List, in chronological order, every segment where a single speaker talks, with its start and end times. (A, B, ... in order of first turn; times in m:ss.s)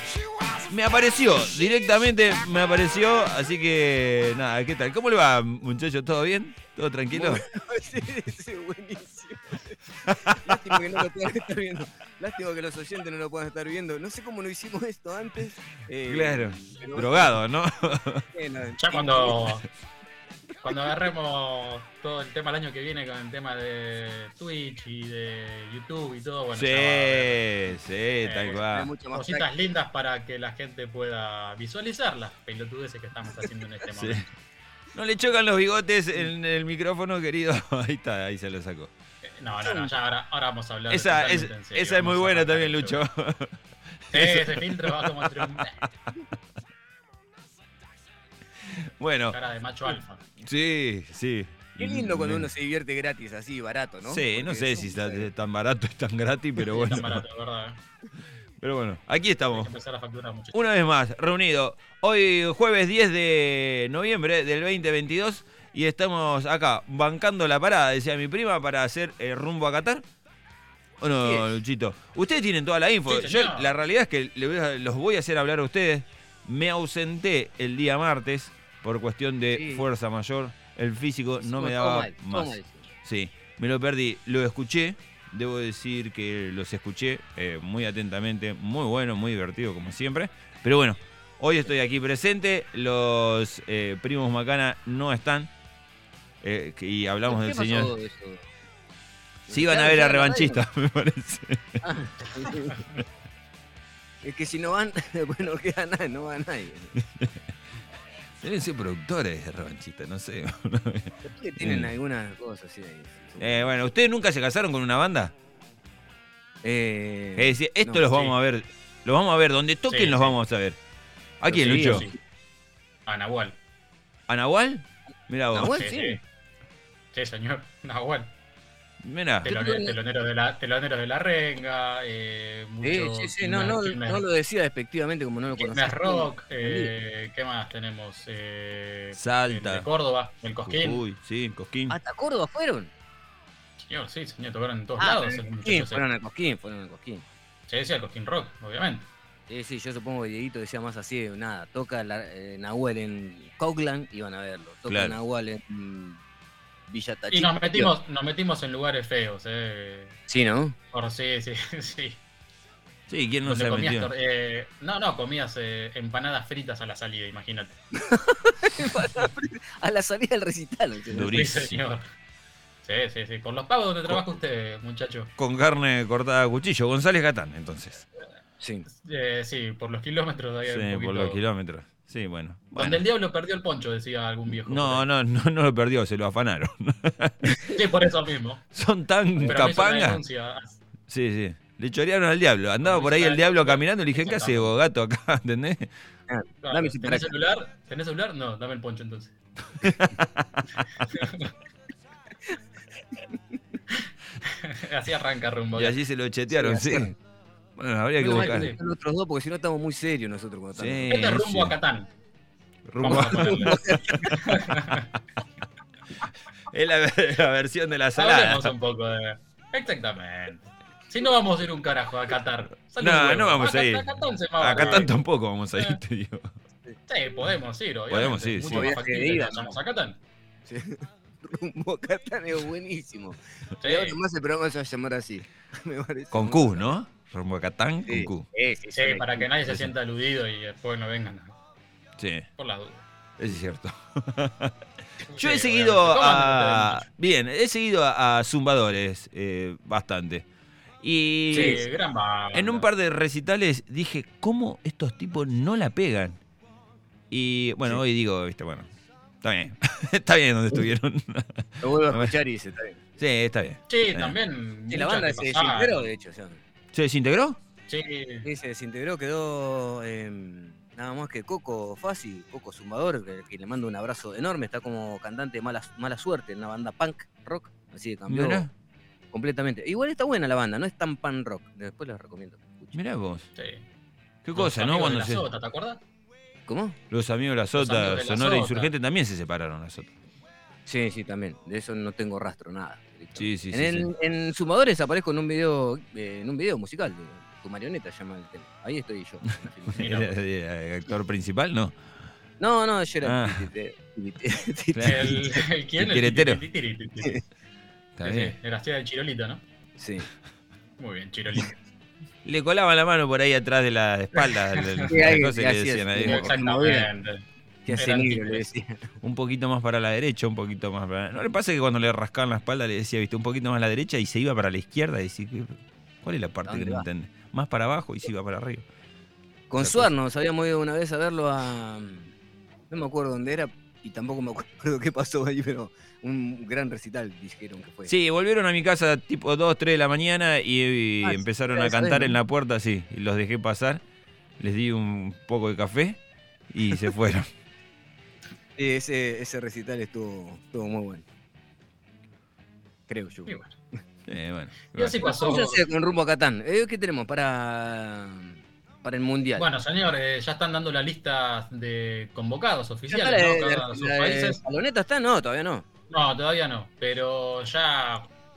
0:00.7-0:07.4 A
0:07.1-0:17.4 B
0:10.3-0:10.8 A
0:16.1-0:18.2 A
0:18.3-0:19.3 B
0:18.8-0:19.6 C
0:20.6-0:27.4 C
0:26.6-0:28.9 A
0:28.2-0:34.3 C
0:28.7-0:29.5 B
0:34.0-0:34.2 A
0:34.9-0:38.9 A
0:39.2-0:43.0 C
0:39.6-0:39.9 B
0:40.9-0:43.6 A
0:44.1-0:45.6 A
0:44.1-0:45.9 C
0:48.7-0:49.4 A
0:49.3-0:50.2 C
0:50.4-0:52.5 A
0:51.8-0:55.3 B
0:54.1-0:57.2 A
0:56.6-0:57.8 C
0:58.6-0:59.7 A
0:59.5-1:00.6 C
1:00.5-1:10.0 A
1:11.0-1:35.5 A
1:11.2-1:11.5 B
1:13.1-1:13.7 C
1:19.5-1:19.8 B
1:21.4-1:22.9 B
1:36.4-1:37.9 A
1:37.2-1:38.5 B
1:39.5-1:40.6 B
1:39.5-1:41.7 A
1:41.8-1:42.8 B
1:44.2-1:47.0 B
1:48.4-1:51.9 A
1:51.2-1:53.7 B
1:53.4-1:55.3 A
1:56.6-1:58.0 B
1:57.4-2:00.8 A
1:58.0-1:58.3 C
1:59.9-2:00.4 C
2:01.4-2:02.0 A
2:01.5-2:02.2 B
2:01.6-2:02.1 C
2:03.0-2:03.6 C
2:04.3-2:05.8 A
2:05.5-2:06.2 B
2:05.6-2:06.2 C
2:07.1-2:08.3 C
2:09.0-2:09.5 A
2:09.4-2:14.2 C
2:09.4-2:10.0 B
2:12.8-2:16.9 B
2:15.6-2:21.0 C
2:19.1-2:19.9 A
2:20.6-2:21.9 A
2:21.9-2:22.9 B
2:23.8-2:26.0 C
2:25.0-2:27.2 B
2:27.7-2:29.1 C
2:29.5-2:36.2 B
2:34.9-2:35.2 A
2:36.9-2:37.9 B
2:37.3-2:40.2 C
2:40.3-2:40.7 B
2:40.9-2:42.2 C
2:43.1-2:44.1 A
2:43.4-2:47.8 C
2:48.0-2:51.3 B
2:51.1-2:51.8 A
2:51.3-2:52.1 C
2:52.8-2:55.3 C
2:55.4-2:58.0 A
2:58.6-2:58.9 B
2:58.9-3:01.4 C
3:00.6-3:03.0 A
3:02.8-3:05.0 C
3:04.6-3:07.5 A
3:07.7-3:08.7 C
3:08.7-3:10.2 A
3:09.4-3:09.7 B
3:09.4-3:10.8 C
3:11.1-3:15.9 A
3:12.8-3:14.7 C
3:16.3-3:17.3 B
3:16.6-3:19.3 C
3:19.8-3:20.8 A
3:21.1-3:21.5 C
3:23.3-3:23.6 B
3:23.9-3:26.0 C
3:25.7-3:27.1 A
3:26.5-3:27.1 B
3:27.8-3:28.7 A
3:28.2-3:31.2 B
3:28.3-3:28.8 C
3:30.7-3:31.8 A
3:31.1-3:32.1 C
3:32.9-3:35.0 A
3:33.0-3:35.0 C
3:33.0-3:34.4 B
3:36.7-3:38.7 A
3:38.2-3:45.1 C
3:43.0-3:44.0 A
3:44.6-3:46.5 A
3:47.1-3:50.2 C
3:48.1-3:48.9 A
3:48.7-3:49.8 B
3:50.7-3:56.9 B
3:53.8-3:54.2 C
3:56.3-3:58.5 A
3:58.0-3:59.5 B
3:59.0-4:01.6 C
4:02.2-4:02.4 A
4:02.6-4:03.0 C
4:03.4-4:04.7 A
4:05.3-4:07.1 C
4:05.4-4:10.4 A
4:11.0-4:11.8 A
4:11.5-4:12.9 C
4:11.5-4:11.8 B
4:12.5-4:16.4 A
4:17.3-4:18.9 A
4:19.4-4:22.3 A
4:21.8-4:23.0 B
4:23.2-4:24.4 A
4:23.9-4:26.0 C
4:24.9-4:26.6 B
4:26.9-4:27.6 A
4:27.9-4:28.5 C
4:28.4-4:38.7 B
4:38.3-4:38.7 A
4:39.3-4:43.0 B
4:42.9-4:43.5 A
4:43.6-4:43.8 C
4:44.4-4:45.4 A
4:44.5-4:46.0 C
4:46.7-4:47.0 B
4:47.1-4:50.1 A
4:47.8-4:48.9 C
4:50.8-5:00.0 B
4:53.4-4:54.1 A
4:59.9-5:02.0 A
5:00.0-5:00.3 C
5:02.6-5:05.6 B
5:03.2-5:03.7 A
5:04.9-5:05.4 A
5:05.0-5:07.4 C
5:06.0-5:06.6 A
5:08.2-5:08.5 A
5:08.2-5:09.6 C
5:10.0-5:10.3 B
5:11.0-5:11.8 C
5:12.4-5:16.5 A
5:14.4-5:15.1 C
5:15.1-5:17.1 B
5:16.2-5:18.7 C
5:17.8-5:19.1 B
5:19.2-5:28.8 A
5:26.6-5:27.1 B
5:29.7-5:32.3 B
5:29.8-5:30.1 A
5:32.9-5:38.1 B
5:38.0-5:44.0 A
5:41.2-5:42.3 B
5:44.6-5:47.5 A
5:48.8-5:51.2 B
5:53.1-5:53.5 B
5:53.4-5:53.7 C
5:54.3-5:55.2 A
5:54.9-5:55.8 C
5:55.2-5:59.7 B
5:59.6-6:04.6 C
6:03.1-6:05.8 B
6:06.1-6:08.3 C